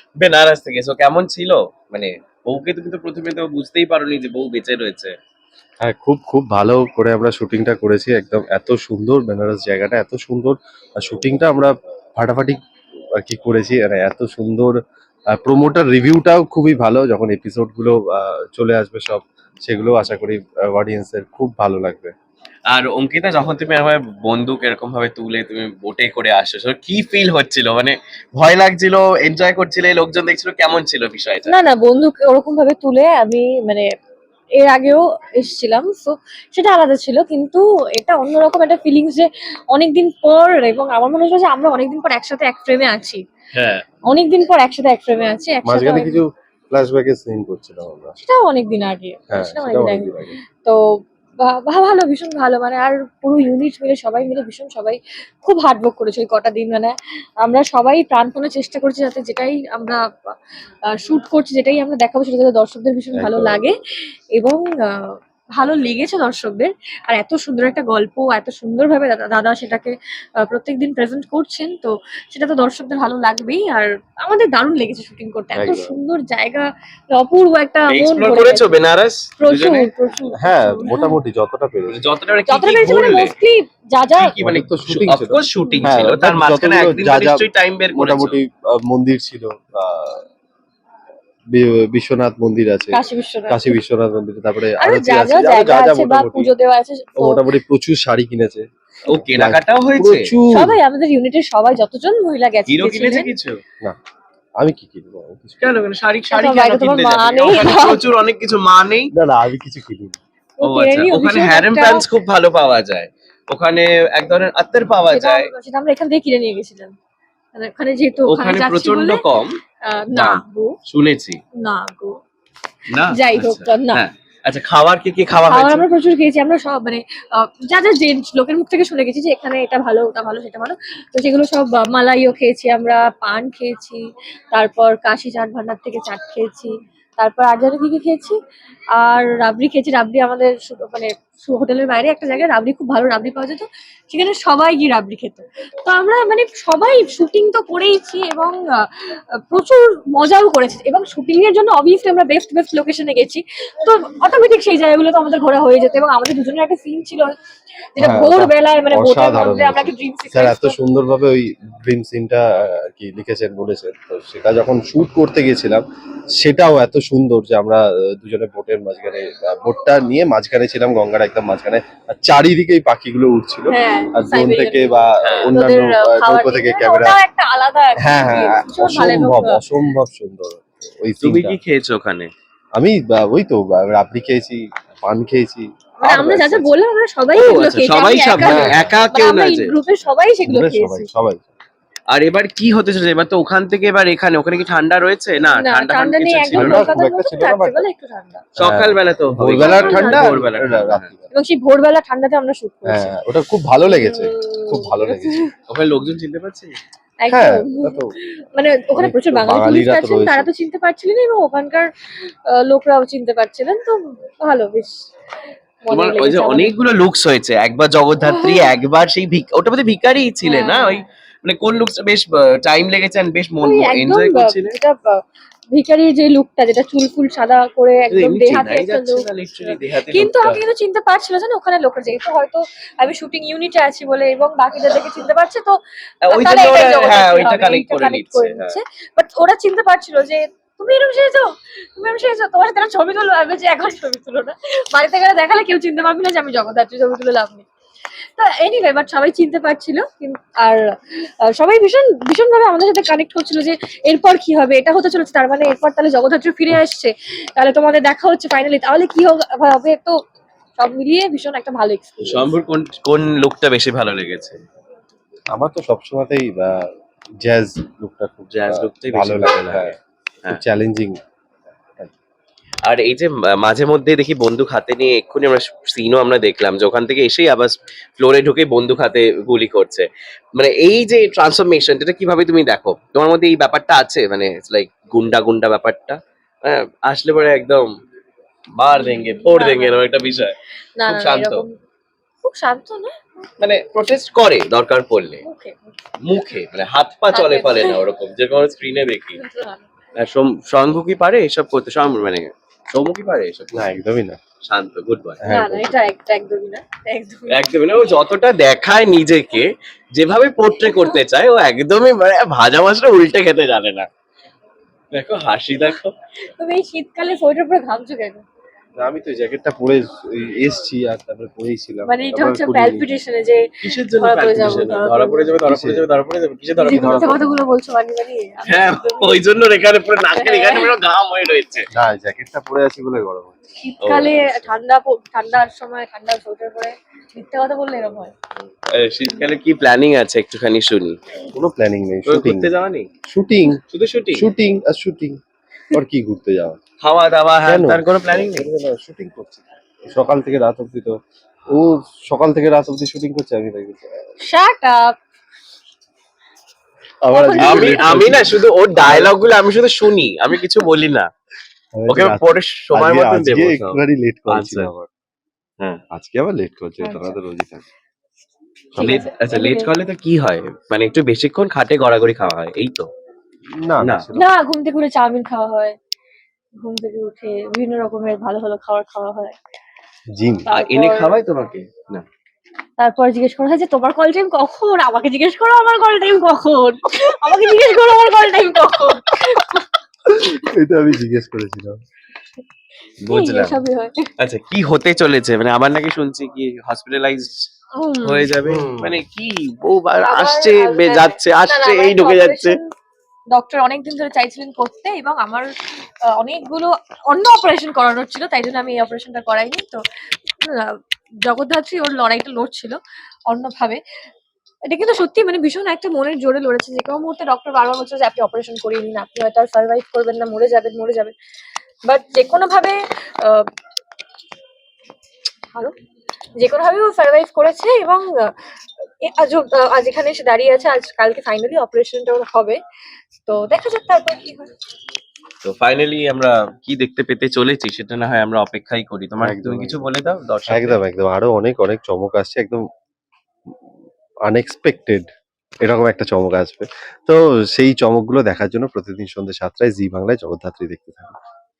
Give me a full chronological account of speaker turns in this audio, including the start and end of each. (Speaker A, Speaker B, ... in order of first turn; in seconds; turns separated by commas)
Speaker A: 0.2-5.1, Speaker B: 5.8-12.6, Speaker B: 13.1-14.8, Speaker B: 15.3-22.1, Speaker A: 22.7-31.5, Speaker C: 31.5-33.9, Speaker C: 34.6-43.2, Speaker A: 43.5-43.8, Speaker C: 44.0-46.2, Speaker B: 45.6-48.2, Speaker C: 48.2-50.8, Speaker B: 49.3-50.4, Speaker C: 51.4-60.3, Speaker C: 60.9-63.8, Speaker B: 63.1-63.7, Speaker C: 64.3-78.7, Speaker B: 75.5-76.0, Speaker A: 77.9-79.9, Speaker C: 79.4-81.2, Speaker B: 80.3-82.0, Speaker A: 81.9-83.3, Speaker C: 82.5-84.3, Speaker A: 84.2-88.4, Speaker B: 84.4-90.2, Speaker C: 85.6-85.9, Speaker B: 91.5-96.5, Speaker C: 92.9-93.8, Speaker C: 94.8-97.5, Speaker B: 97.2-100.8, Speaker A: 99.1-100.3, Speaker C: 100.5-103.3, Speaker A: 102.7-103.6, Speaker B: 104.6-105.8, Speaker A: 105.6-109.1, Speaker C: 106.3-108.0, Speaker B: 109.1-110.2, Speaker C: 110.6-112.1, Speaker A: 110.6-115.5, Speaker C: 115.0-116.9, Speaker C: 117.5-119.2, Speaker A: 118.2-119.6, Speaker C: 119.8-120.8, Speaker A: 120.1-121.4, Speaker C: 121.6-122.2, Speaker A: 122.9-125.9, Speaker C: 123.1-124.0, Speaker C: 125.5-138.3, Speaker C: 138.9-157.3, Speaker C: 157.9-160.8, Speaker B: 158.0-165.8, Speaker B: 166.4-177.2, Speaker C: 173.7-179.6, Speaker A: 175.2-175.5, Speaker B: 178.0-181.6, Speaker A: 181.2-182.3, Speaker B: 182.8-186.7, Speaker C: 186.0-191.1, Speaker A: 187.3-189.7, Speaker B: 188.4-188.9, Speaker B: 190.5-191.5, Speaker A: 192.1-196.9, Speaker C: 195.5-198.4, Speaker B: 196.5-197.8, Speaker B: 198.6-201.3, Speaker A: 198.6-201.1, Speaker C: 199.6-200.3, Speaker C: 201.3-203.1, Speaker B: 202.8-205.5, Speaker C: 203.8-205.5, Speaker A: 205.7-206.8, Speaker C: 207.2-215.0, Speaker B: 207.3-208.1, Speaker B: 208.9-210.5, Speaker C: 215.8-216.8, Speaker A: 215.9-224.8, Speaker C: 218.2-218.7, Speaker C: 220.4-221.0, Speaker C: 223.6-247.7, Speaker A: 228.1-230.6, Speaker A: 236.2-238.8, Speaker C: 248.3-250.8, Speaker C: 251.4-260.2, Speaker C: 260.8-262.5, Speaker A: 262.2-264.6, Speaker B: 265.5-266.9, Speaker B: 267.4-270.0, Speaker A: 268.5-270.6, Speaker B: 270.5-271.2, Speaker A: 272.8-287.9, Speaker A: 288.8-290.5, Speaker C: 288.9-290.1, Speaker C: 290.9-291.8, Speaker A: 291.1-291.6, Speaker C: 292.4-293.2, Speaker A: 293.6-295.4, Speaker C: 295.4-295.9, Speaker A: 296.2-299.4, Speaker C: 297.3-298.0, Speaker C: 299.3-299.8, Speaker A: 300.1-303.9, Speaker B: 303.7-304.4, Speaker A: 304.6-305.4, Speaker B: 305.4-306.0, Speaker C: 305.5-307.7, Speaker A: 307.5-314.1, Speaker A: 315.1-316.1, Speaker C: 316.6-318.4, Speaker B: 319.0-323.1, Speaker C: 322.1-325.5, Speaker A: 323.8-327.4, Speaker B: 324.6-326.1, Speaker C: 326.8-329.4, Speaker B: 326.9-327.3, Speaker A: 328.6-331.9, Speaker C: 330.3-330.9, Speaker B: 331.9-333.6, Speaker C: 333.8-338.3, Speaker A: 334.0-334.6, Speaker A: 338.9-341.2, Speaker B: 341.5-342.7, Speaker A: 342.2-343.1, Speaker B: 343.3-343.8, Speaker A: 343.9-344.5, Speaker B: 344.3-345.4, Speaker B: 345.9-346.8, Speaker A: 347.0-348.7, Speaker B: 347.6-354.2, Speaker C: 354.4-355.1, Speaker B: 357.2-359.4, Speaker C: 357.3-358.2, Speaker A: 357.6-361.3, Speaker B: 361.9-365.1, Speaker A: 362.1-364.9, Speaker B: 366.1-367.8, Speaker C: 367.0-367.4, Speaker B: 368.9-369.2, Speaker A: 368.9-373.1, Speaker C: 369.0-369.9, Speaker B: 373.8-374.5, Speaker C: 374.3-375.9, Speaker C: 376.8-379.5, Speaker B: 380.3-380.7, Speaker C: 380.6-381.4, Speaker A: 380.7-382.2, Speaker C: 383.0-389.8, Speaker B: 390.3-392.0, Speaker A: 393.2-393.8, Speaker C: 393.3-394.3, Speaker A: 394.4-397.7, Speaker C: 397.9-398.5, Speaker A: 398.2-402.8, Speaker B: 398.6-399.2, Speaker C: 400.2-402.8, Speaker C: 403.5-405.7, Speaker C: 406.3-410.0, Speaker C: 410.6-414.0, Speaker C: 414.8-421.3, Speaker C: 422.1-423.6, Speaker C: 426.6-428.3, Speaker C: 429.2-432.8, Speaker C: 433.4-434.7, Speaker A: 435.6-441.0, Speaker B: 439.4-440.0, Speaker B: 440.7-442.9, Speaker B: 444.4-445.3, Speaker B: 445.8-451.4